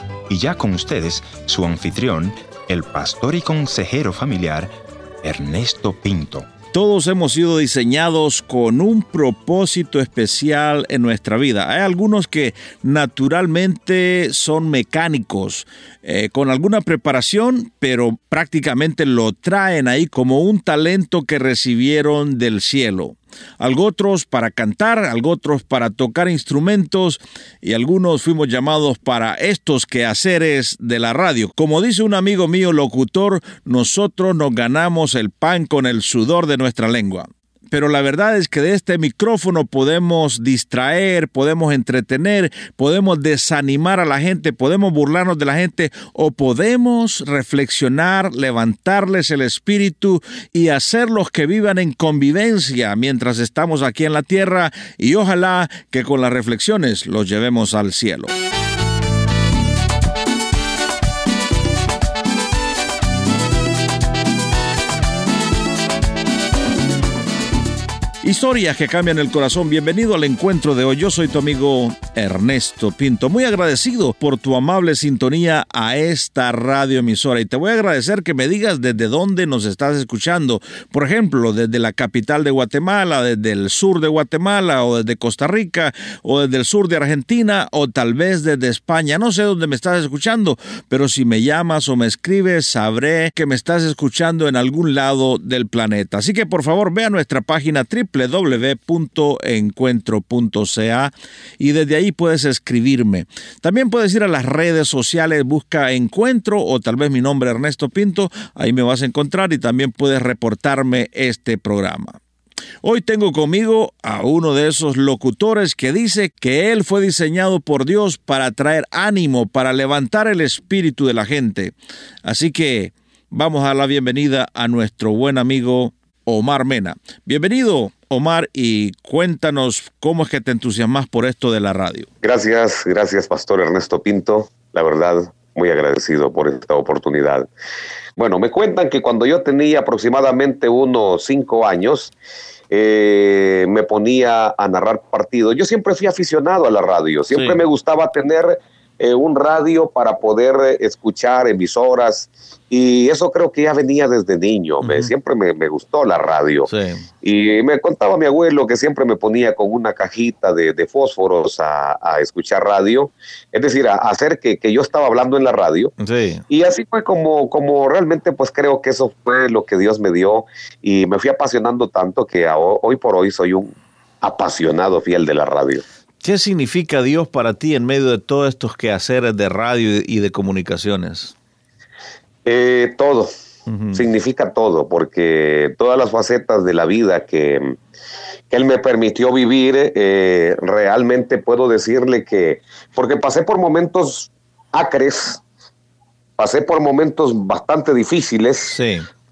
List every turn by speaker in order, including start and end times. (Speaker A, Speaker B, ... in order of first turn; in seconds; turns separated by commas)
Speaker A: 0.3-6.5, Speaker B: 6.7-58.3, Speaker B: 68.2-112.2, Speaker B: 112.8-132.1, Speaker C: 132.2-137.5, Speaker C: 138.2-142.1, Speaker C: 142.7-156.7, Speaker B: 147.3-147.6, Speaker B: 154.8-155.1, Speaker B: 156.7-157.0, Speaker C: 157.2-165.9, Speaker B: 166.0-166.4, Speaker C: 166.5-175.8, Speaker B: 176.2-181.3, Speaker C: 182.4-183.3, Speaker B: 183.7-184.1, Speaker C: 183.9-187.8, Speaker C: 188.5-195.4, Speaker C: 196.4-198.7, Speaker B: 198.7-199.1